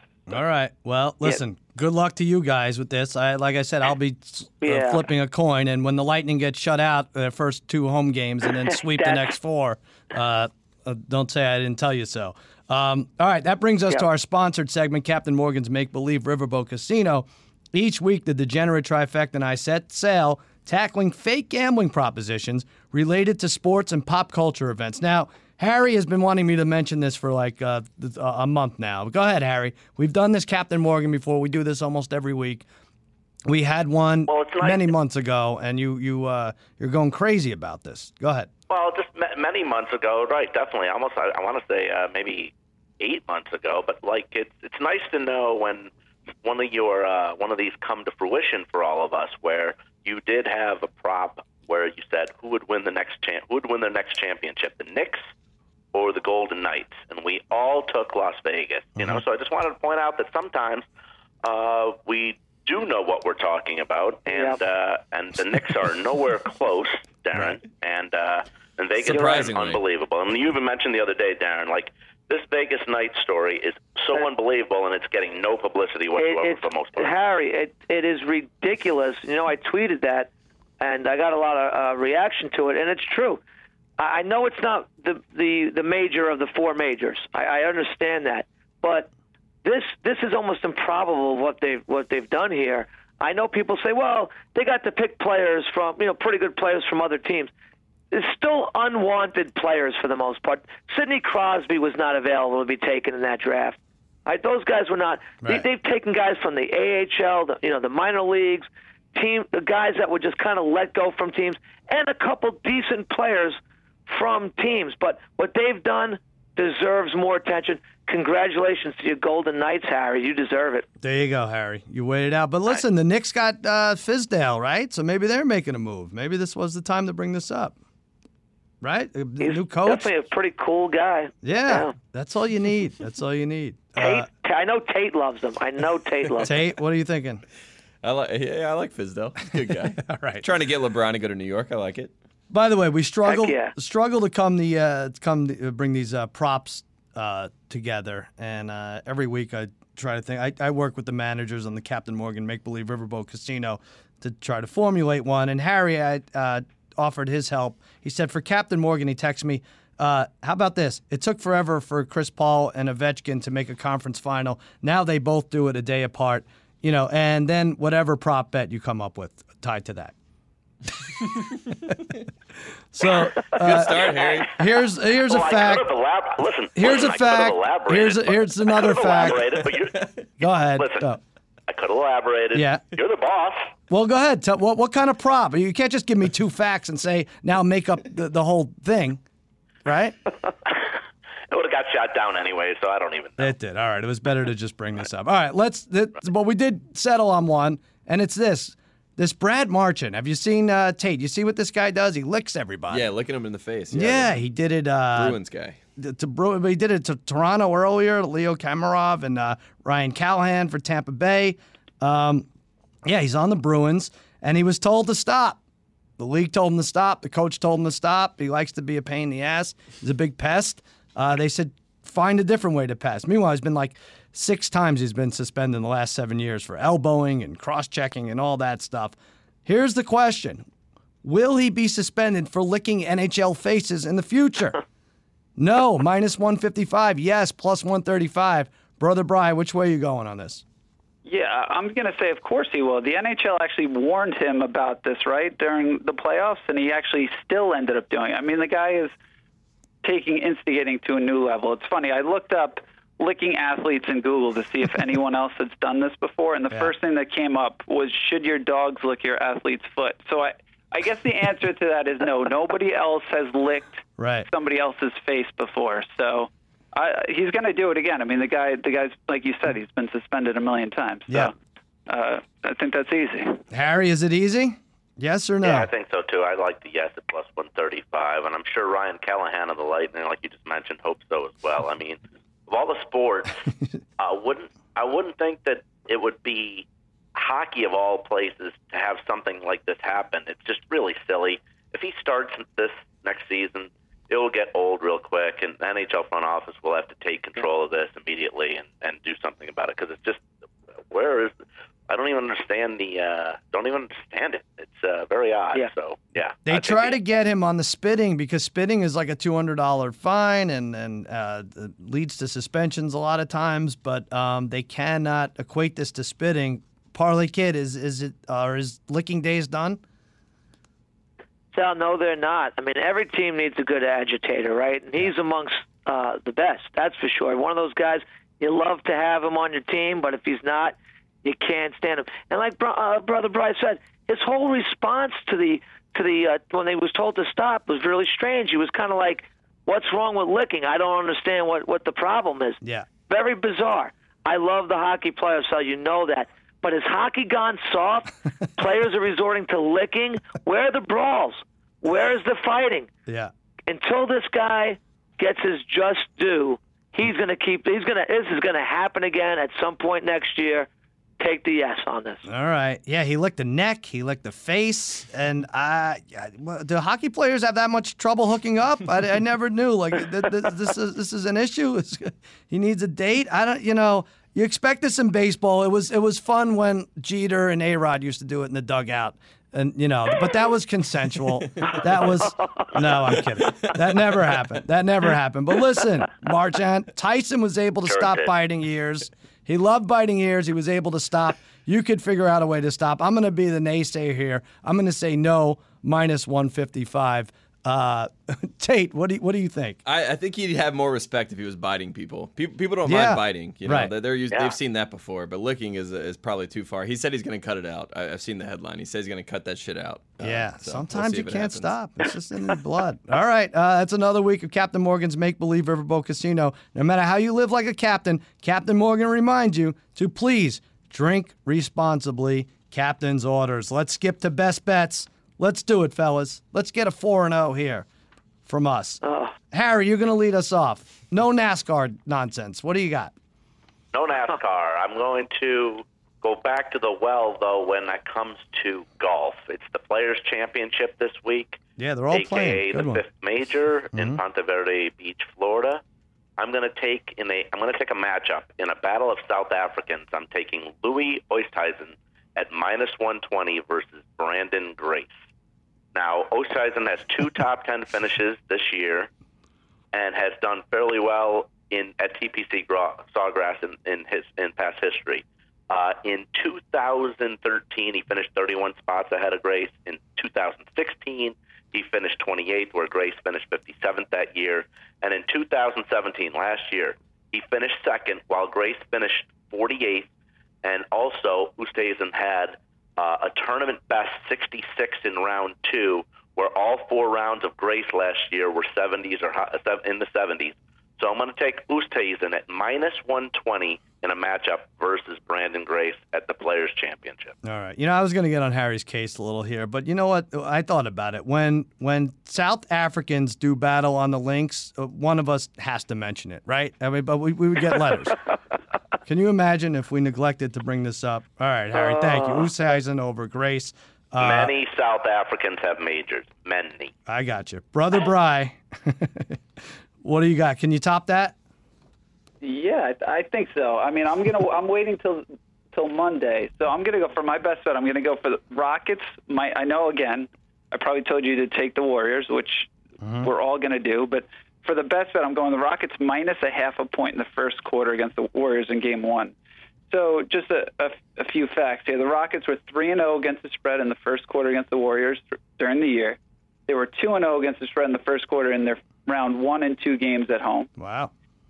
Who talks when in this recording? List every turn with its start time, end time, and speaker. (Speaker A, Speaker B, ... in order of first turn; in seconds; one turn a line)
Speaker A: 0.3-32.7
Speaker B: 4.6-5.0
Speaker B: 8.7-9.3
Speaker A: 33.5-38.5
Speaker C: 34.3-34.9
Speaker C: 38.7-45.9
Speaker C: 46.4-55.2
Speaker C: 55.9-60.9
Speaker C: 61.4-77.1
Speaker B: 64.3-64.6
Speaker D: 69.0-69.8
Speaker B: 76.2-83.4
Speaker B: 84.0-89.1
Speaker B: 89.6-97.5
Speaker B: 98.1-120.9
Speaker A: 121.0-127.8
Speaker A: 128.8-130.1
Speaker B: 129.4-131.9
Speaker A: 131.4-134.3
Speaker B: 134.0-136.6
Speaker A: 136.4-137.4
Speaker D: 138.0-142.1
Speaker A: 140.0-140.4
Speaker A: 142.5-170.1
Speaker B: 143.2-143.7
Speaker A: 172.9-175.9
Speaker D: 173.4-174.6
Speaker C: 173.9-174.4
Speaker C: 175.3-180.1
Speaker A: 176.8-179.6
Speaker A: 180.4-181.2
Speaker C: 180.8-181.1
Speaker C: 181.7-183.7
Speaker A: 182.5-182.8
Speaker A: 183.9-189.2
Speaker A: 189.8-190.2
Speaker C: 191.5-193.5
Speaker A: 193.4-203.1
Speaker D: 202.9-204.3
Speaker A: 203.9-205.4
Speaker D: 205.2-205.8
Speaker A: 206.0-212.5
Speaker A: 213.1-215.6
Speaker A: 216.2-230.6
Speaker A: 231.2-234.8
Speaker A: 235.6-240.6
Speaker E: 241.2-249.1
Speaker E: 250.0-271.5
Speaker A: 264.2-264.5
Speaker E: 272.1-273.6
Speaker A: 273.7-275.9
Speaker C: 275.6-283.6
Speaker C: 284.2-300.4
Speaker C: 301.1-301.5
Speaker C: 302.1-307.1
Speaker A: 306.7-320.0
Speaker B: 321.7-353.1
Speaker A: 353.3-353.5
Speaker B: 353.9-360.9
Speaker B: 361.4-362.5
Speaker A: 362.5-400.0
Speaker B: 382.6-382.9
Speaker C: 388.1-388.5
Speaker D: 400.1-411.9
Speaker A: 403.1-404.1
Speaker A: 410.4-428.1
Speaker A: 428.7-433.3
Speaker B: 429.2-429.5
Speaker C: 434.1-441.8
Speaker A: 442.0-443.2
Speaker C: 442.3-446.0
Speaker A: 444.1-444.4
Speaker C: 446.6-455.3
Speaker C: 456.1-459.3
Speaker C: 460.1-480.3
Speaker C: 480.8-497.6
Speaker A: 497.6-508.4
Speaker A: 509.3-514.7
Speaker B: 512.1-512.6
Speaker C: 514.4-517.1
Speaker A: 517.3-519.6
Speaker A: 520.2-521.5
Speaker E: 522.6-532.9
Speaker A: 533.2-533.5
Speaker E: 533.4-539.5
Speaker E: 540.1-550.9
Speaker A: 551.0-551.3